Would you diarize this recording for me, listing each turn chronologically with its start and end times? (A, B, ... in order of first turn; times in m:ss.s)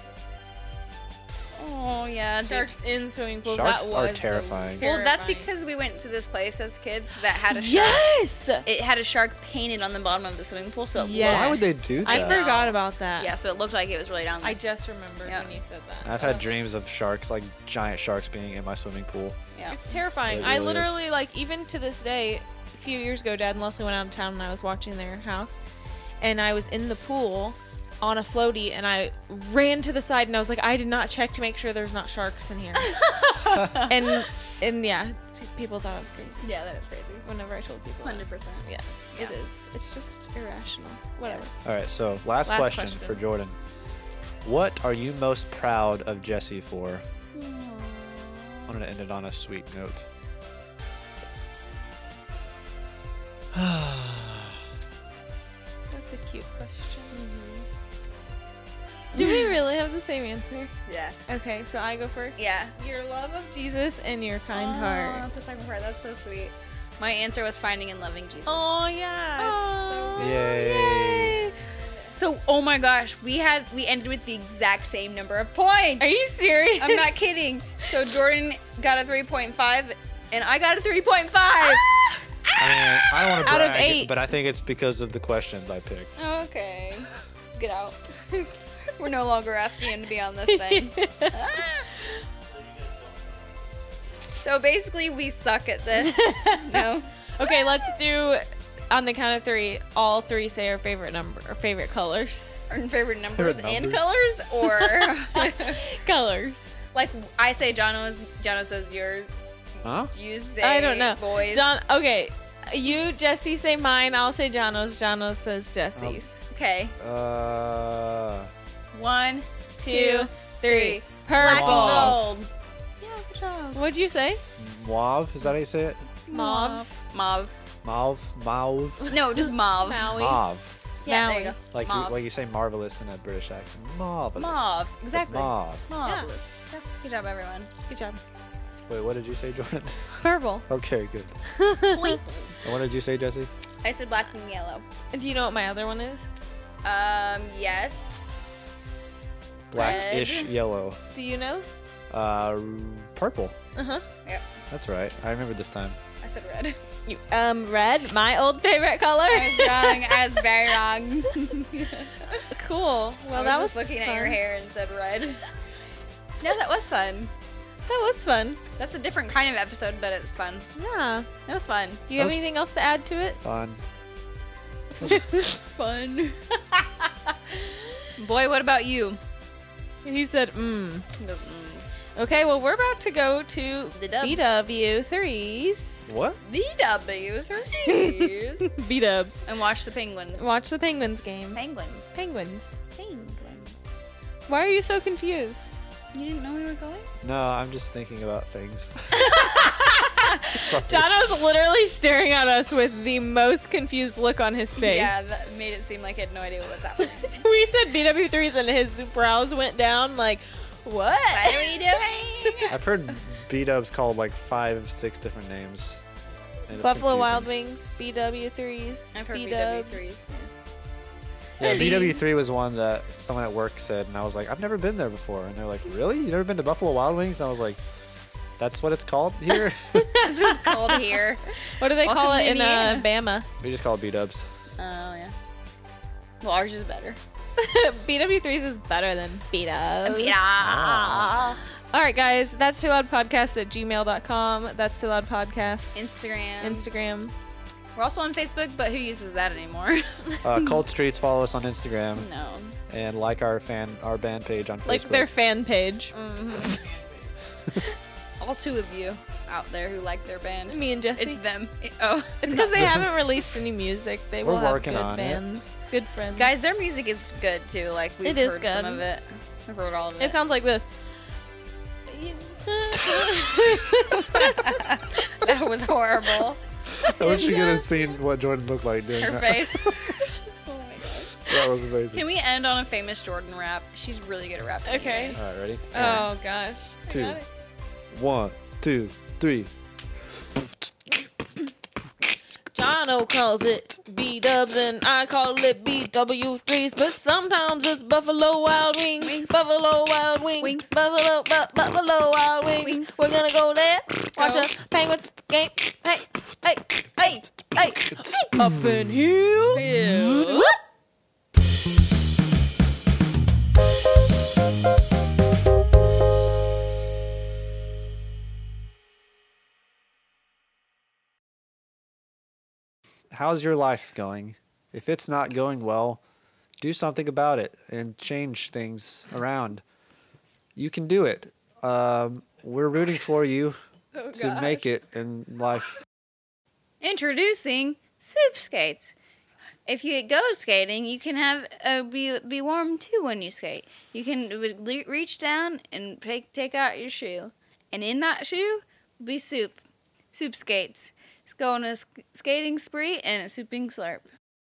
0:01.6-0:02.7 A
0:02.4-0:05.5 B
0:03.4-0:04.8 C
0:04.8-0:08.1 A
0:07.5-0:08.6 B
0:08.6-0:14.6 A
0:11.0-0:13.3 B
0:11.2-0:12.4 C
0:14.4-0:16.4 B
0:15.2-0:15.5 A
0:16.0-0:19.4 C
0:19.5-0:19.8 A
0:19.7-0:25.5 B
0:20.3-0:20.9 C
0:26.2-0:36.5 B
0:32.8-0:34.0 A
0:36.4-0:37.2 A
0:37.2-0:41.6 B
0:38.0-0:39.4 A
0:41.6-0:43.5 C
0:42.4-0:43.2 B
0:44.4-0:47.0 C
0:47.3-0:48.8 A
0:48.7-0:50.0 C
0:53.5-0:54.6 C
0:55.9-0:57.2 B
0:57.1-0:57.7 A
0:59.1-1:00.7 B
0:59.1-0:59.4 A
1:00.9-1:01.2 A
1:01.3-1:05.2 B
1:02.4-1:02.7 A
1:04.5-1:08.6 A
1:08.4-1:10.3 B
1:09.4-1:16.0 A
1:10.2-1:11.4 C
1:16.0-1:17.2 B
1:16.8-1:22.1 A
1:22.6-1:26.2 C
1:23.2-1:24.1 B
1:26.2-1:28.0 A
1:29.0-1:32.1 A
1:30.5-1:31.4 B
1:34.4-1:37.9 A
1:36.0-1:36.8 B
1:37.4-1:42.5 B
1:42.7-1:45.8 A
1:43.3-1:44.0 C
1:44.6-1:46.7 B
1:46.9-1:49.3 A
1:49.8-1:50.1 C
1:50.1-1:51.7 A
1:50.6-1:56.3 B
1:56.0-1:56.2 C
1:56.4-1:57.0 A
1:57.0-1:58.5 C
1:58.9-2:03.8 A
1:59.8-2:02.2 B
2:01.4-2:02.3 C
2:03.7-2:04.4 B
2:04.6-2:06.1 C
2:06.2-2:07.5 A
2:06.3-2:06.9 B
2:07.8-2:09.0 C
2:09.0-2:10.4 B
2:09.1-2:10.1 A
2:10.1-2:10.8 C
2:11.0-2:12.2 A
2:11.0-2:11.6 B
2:11.7-2:15.8 C
2:14.4-2:17.7 A
2:17.9-2:18.2 B
2:18.9-2:20.1 C
2:20.2-2:20.6 B
2:20.7-2:21.3 C
2:21.6-2:22.2 B
2:21.9-2:22.6 A
2:22.6-2:23.5 C
2:23.8-2:24.8 A
2:25.1-2:26.2 B
2:26.8-2:28.2 A
2:29.7-2:31.0 C
2:29.7-2:30.5 A
2:31.1-2:31.7 B
2:32.1-2:33.5 C
2:33.8-2:34.0 B
2:34.7-2:36.0 C
2:36.2-2:36.8 A
2:37.1-2:40.2 B
2:39.3-2:42.4 A
2:42.3-2:44.4 B
2:43.3-2:45.4 A
2:46.4-2:47.3 A
2:47.8-2:48.6 B
2:48.8-2:50.7 A
2:50.8-2:51.3 B
2:51.4-2:52.0 A
2:52.1-2:53.4 B
2:52.1-2:52.4 C
2:53.4-2:53.8 C
2:55.0-2:56.4 A
2:55.1-2:55.4 B
2:58.2-2:59.2 A
3:00.0-3:01.0 B
3:01.2-3:01.9 A
3:02.2-3:06.0 B
3:03.9-3:04.5 A
3:06.1-3:06.4 C
3:06.4-3:08.7 A
3:07.8-3:09.4 B
3:09.4-3:10.5 A
3:10.4-3:11.6 B
3:11.5-3:12.1 A
3:12.1-3:12.7 B
3:13.0-3:13.9 A
3:14.5-3:15.8 B
3:16.1-3:17.1 A
3:17.2-3:19.4 C
3:19.2-3:25.1 B
3:20.4-3:21.3 C
3:24.8-3:27.5 A
3:27.0-3:32.7 B
3:31.3-3:32.8 A
3:32.7-3:36.0 C
3:36.7-3:37.5 C
3:36.7-3:40.2 B
3:39.1-3:40.5 A
3:41.6-3:47.8 C
3:41.6-3:42.2 B
3:48.6-3:50.1 C
3:49.9-3:51.2 B
3:50.2-3:53.1 A
3:51.8-3:53.5 B
3:53.6-3:54.5 C
3:54.8-3:55.3 A
3:56.4-3:57.2 A
3:57.6-4:07.3 B
4:00.0-4:01.6 A
4:00.6-4:01.4 C
4:05.9-4:06.9 A
4:08.0-4:10.8 A
4:10.4-4:12.3 C
4:12.1-4:12.8 A
4:12.9-4:15.3 C
4:14.8-4:16.1 B
4:16.1-4:16.8 A
4:18.4-4:23.0 A
4:20.7-4:21.4 B
4:22.4-4:26.5 B
4:22.8-4:23.1 C
4:24.4-4:25.4 C
4:26.3-4:30.4 A
4:28.2-4:29.0 B
4:30.2-4:30.9 B
4:32.1-4:35.3 B
4:34.1-4:36.6 A
4:36.9-4:40.0 C
4:37.0-4:38.1 B
4:37.2-4:37.8 A
4:39.2-4:40.3 B
4:39.3-4:41.6 A
4:41.4-4:42.2 C
4:42.1-4:45.4 A
4:44.8-4:47.4 B
4:45.3-4:46.3 C
4:47.1-4:47.4 C
4:48.1-4:49.7 C
4:50.3-4:50.8 C
4:52.7-5:10.8 B
4:59.2-4:59.6 A
5:00.6-5:00.9 A
5:02.8-5:03.1 A
5:04.4-5:04.7 A
5:07.7-5:09.2 C
5:09.7-5:10.7 A
5:23.3-5:26.2 C
5:26.8-5:29.8 C
5:30.8-5:33.8 C
5:34.1-5:34.8 A
5:34.3-5:36.0 C
5:37.0-5:39.1 A
5:39.8-5:49.8 A
5:50.3-5:54.2 A